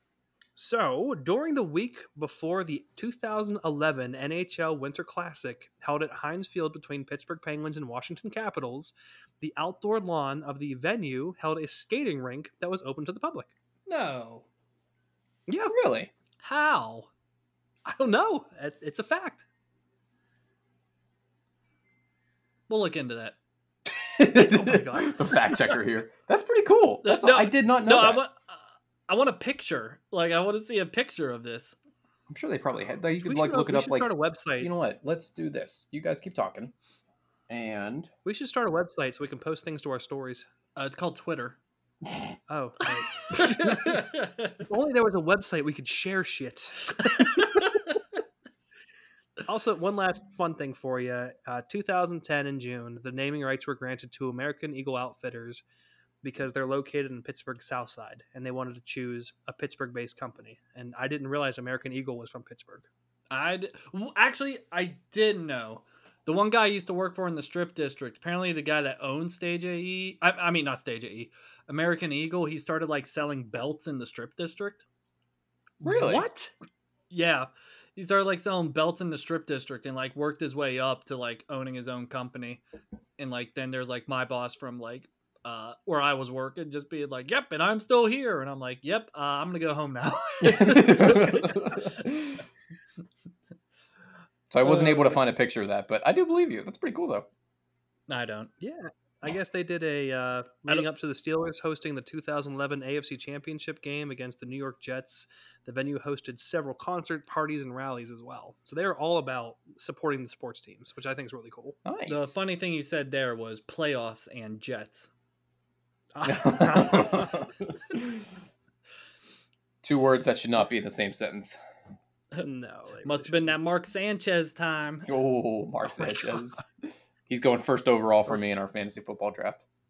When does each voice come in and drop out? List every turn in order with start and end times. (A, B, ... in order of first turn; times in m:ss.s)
0:00.6-0:13.5 A
0:13.9-0:14.4 B
0:15.5-0:15.7 A
0:15.7-0:16.1 C
0:16.4-0:17.1 B
0:17.8-0:19.4 A
0:22.7-0:23.4 B
0:23.9-0:28.2 C
0:24.3-0:25.8 A
0:27.0-0:31.8 B
0:32.3-0:36.7 C
0:33.2-0:34.7 A
0:37.5-0:38.1 C
0:38.2-0:40.5 A
0:40.8-0:41.6 B
0:42.5-0:44.1 A
0:43.3-0:44.6 B
0:44.6-0:47.6 A
0:47.1-0:47.9 B
0:49.4-0:55.6 A
0:56.2-1:02.9 A
1:03.3-1:14.8 B
1:15.8-1:16.2 C
1:15.8-1:16.5 A
1:17.1-1:22.6 B
1:23.2-1:32.0 B
1:30.4-1:32.4 C
1:34.5-1:37.3 C
1:34.6-1:35.1 B
1:38.1-1:38.5 B
1:38.6-1:51.8 A
1:51.8-1:52.4 C
1:52.1-1:55.1 B
1:56.1-1:57.4 A
1:56.2-1:58.2 C
1:59.8-2:01.6 C
2:02.4-2:03.6 A
2:03.0-2:05.1 B
2:05.1-2:06.7 C
2:06.0-2:06.4 A
2:07.3-2:09.6 C